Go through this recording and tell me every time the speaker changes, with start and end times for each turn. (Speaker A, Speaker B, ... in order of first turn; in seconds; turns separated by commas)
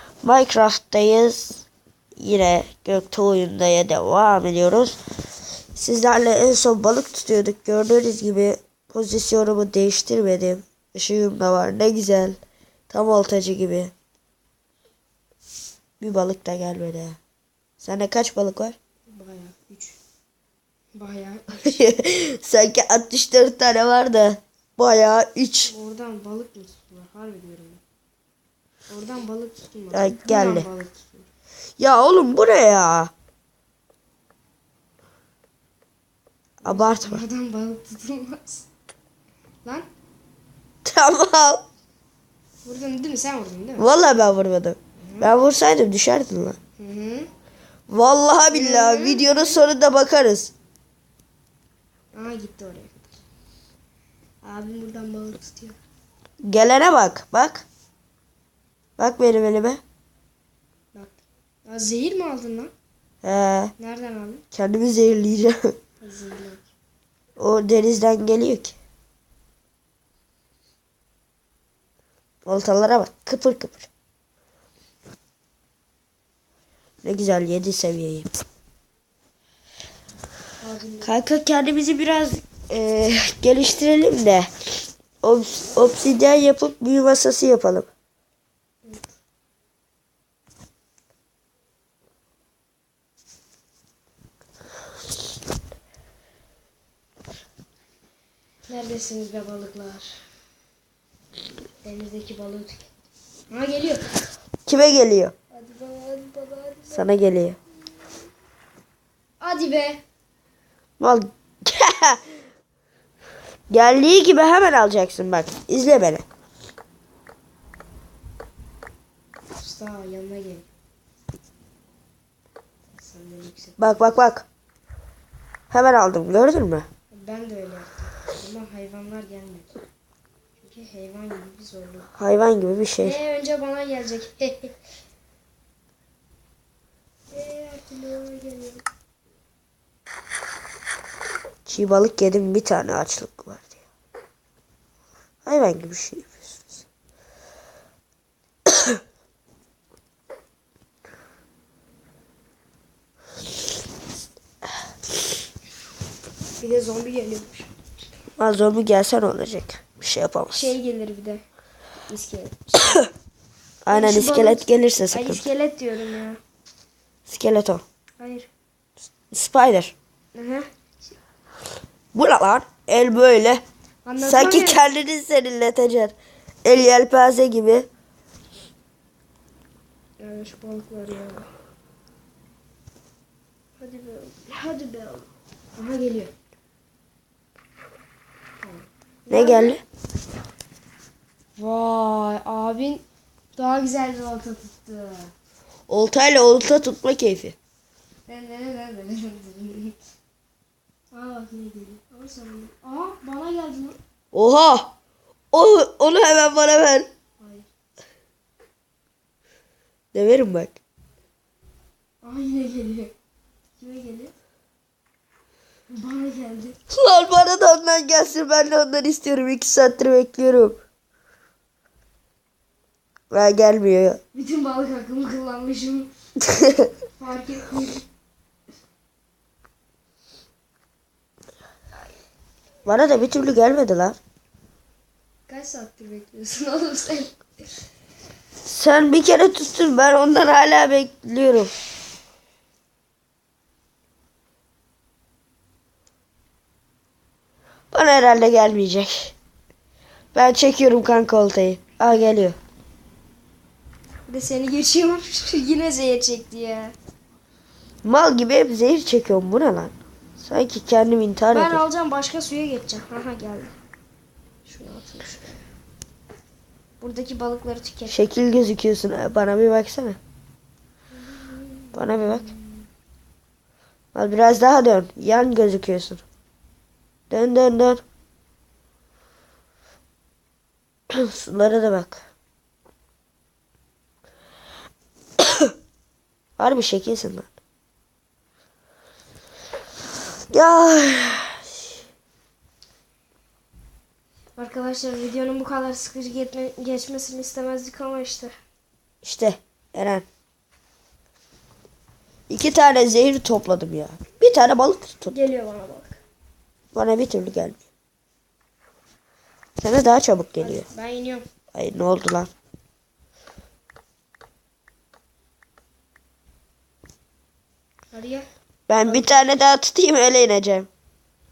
Speaker A: 0.2-1.6, Speaker A: 2.2-5.0, Speaker A: 5.7-12.4, Speaker A: 12.9-13.9, Speaker A: 16.0-17.2, Speaker A: 17.8-18.8, Speaker B: 19.1-20.0, Speaker B: 20.9-21.8, Speaker A: 21.6-25.7, Speaker B: 25.7-27.8, Speaker B: 28.9-31.3, Speaker A: 29.9-30.7, Speaker A: 31.8-33.1, Speaker A: 36.6-37.2, Speaker B: 36.6-38.7, Speaker A: 40.8-41.6, Speaker B: 42.6-43.9, Speaker A: 43.8-46.6, Speaker B: 45.0-45.4, Speaker B: 46.8-47.3, Speaker A: 47.9-50.5, Speaker B: 48.5-49.6, Speaker B: 52.1-53.1, Speaker B: 54.4-55.8, Speaker A: 56.4-57.6, Speaker A: 59.0-59.8, Speaker B: 60.9-62.7, Speaker A: 63.2-63.7, Speaker B: 63.8-64.4, Speaker A: 64.5-65.7, Speaker B: 66.0-66.7, Speaker A: 67.4-68.7, Speaker A: 72.4-73.9, Speaker A: 77.0-78.3, Speaker B: 80.6-81.2, Speaker A: 81.0-84.5, Speaker A: 85.2-87.9, Speaker B: 98.7-100.2, Speaker B: 101.8-102.9, Speaker B: 103.5-104.0, Speaker A: 104.7-105.3, Speaker B: 105.5-107.1, Speaker A: 106.9-107.6, Speaker B: 109.4-110.0, Speaker A: 111.0-112.2, Speaker A: 113.7-116.2, Speaker B: 119.5-120.7, Speaker B: 123.0-124.2, Speaker A: 123.8-124.5, Speaker A: 125.7-126.9, Speaker B: 127.1-129.8, Speaker B: 130.6-132.1, Speaker A: 132.2-133.2, Speaker B: 133.0-134.8, Speaker B: 137.3-138.8, Speaker A: 141.7-143.8, Speaker A: 145.4-146.6, Speaker A: 148.7-149.0, Speaker B: 156.6-157.7, Speaker A: 158.4-160.7, Speaker B: 160.5-161.4, Speaker B: 162.1-163.0, Speaker A: 163.8-165.4, Speaker B: 163.9-166.4, Speaker A: 167.3-167.8, Speaker B: 168.2-168.5, Speaker A: 169.3-169.9, Speaker B: 170.3-171.1, Speaker A: 172.1-173.6, Speaker B: 174.0-174.8, Speaker A: 174.2-177.9, Speaker B: 180.2-181.5, Speaker B: 183.8-186.3, Speaker B: 188.6-189.8, Speaker A: 189.3-189.8, Speaker B: 191.6-193.0, Speaker B: 193.6-195.3, Speaker A: 195.9-197.6, Speaker B: 198.3-200.0, Speaker B: 201.1-204.0, Speaker A: 204.3-204.9, Speaker A: 205.5-207.1, Speaker B: 207.4-207.7, Speaker A: 210.1-210.8, Speaker B: 212.2-213.1, Speaker B: 213.8-214.3, Speaker B: 215.9-216.8, Speaker A: 216.9-220.8, Speaker A: 223.3-224.2, Speaker B: 224.3-226.1, Speaker B: 227.1-228.0, Speaker A: 232.8-234.2, Speaker B: 235.5-237.4, Speaker A: 238.6-241.7, Speaker A: 247.9-249.3, Speaker A: 250.3-252.6, Speaker B: 254.3-256.9, Speaker A: 258.0-261.8, Speaker B: 261.5-263.7, Speaker B: 264.6-265.4, Speaker B: 267.0-268.2, Speaker A: 268.1-270.2, Speaker B: 271.3-272.8, Speaker A: 271.9-272.5, Speaker A: 274.1-276.2, Speaker A: 277.3-278.0, Speaker A: 281.1-282.2, Speaker A: 285.4-285.7, Speaker A: 286.6-287.5, Speaker A: 290.5-291.9, Speaker B: 294.6-298.5, Speaker A: 299.2-300.2, Speaker A: 302.5-305.3, Speaker B: 305.3-306.2, Speaker A: 306.9-307.8, Speaker A: 309.8-310.8, Speaker B: 310.6-311.4, Speaker A: 311.7-312.5, Speaker B: 318.1-318.5, Speaker A: 318.9-320.9, Speaker B: 319.0-319.4